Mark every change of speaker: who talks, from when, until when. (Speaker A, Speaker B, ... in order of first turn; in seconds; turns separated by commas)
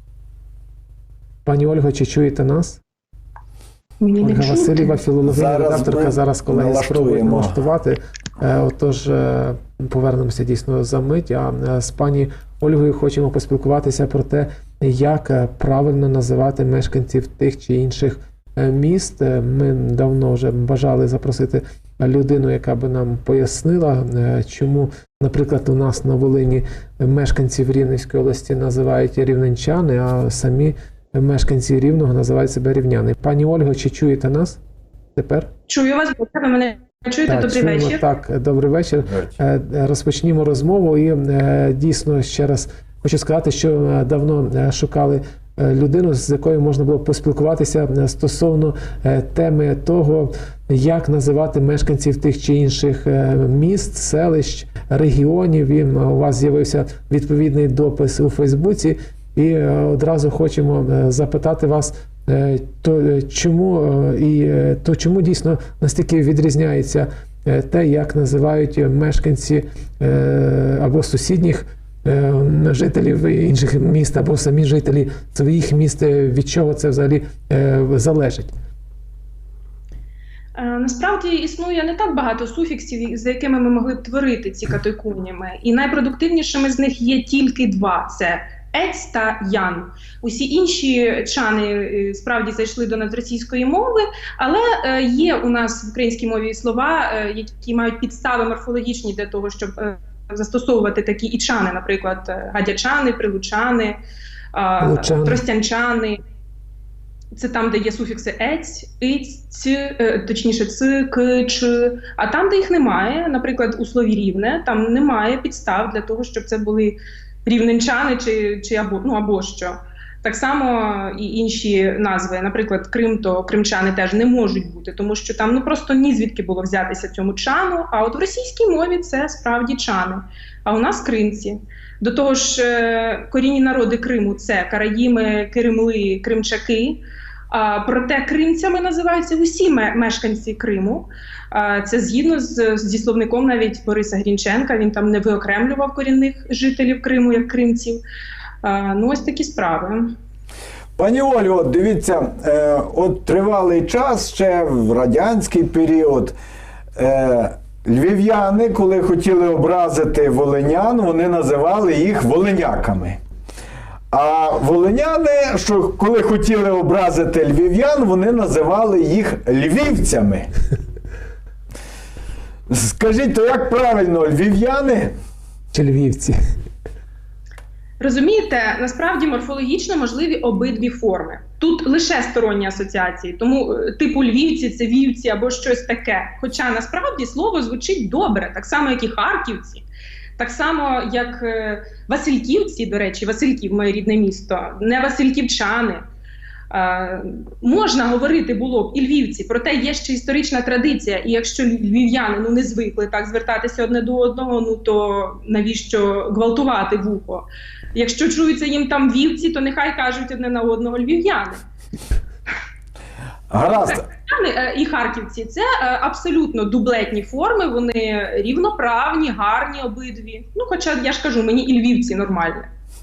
Speaker A: 1.4-2.8, Speaker B: 4.0-5.0, Speaker A: 4.2-34.6, Speaker C: 5.2-7.6, Speaker A: 35.1-35.5, Speaker B: 35.7-38.0, Speaker A: 37.3-78.5, Speaker B: 80.5-104.0, Speaker B: 104.5-106.2, Speaker A: 104.8-105.4, Speaker B: 107.3-148.0, Speaker B: 148.6-150.1, Speaker C: 151.0-156.4, Speaker C: 156.9-163.2, Speaker C: 164.1-170.5, Speaker C: 172.7-175.1, Speaker A: 175.7-176.3, Speaker B: 178.0-189.8, Speaker B: 190.4-196.0, Speaker B: 196.7-211.6, Speaker C: 213.5-214.0, Speaker B: 213.6-222.7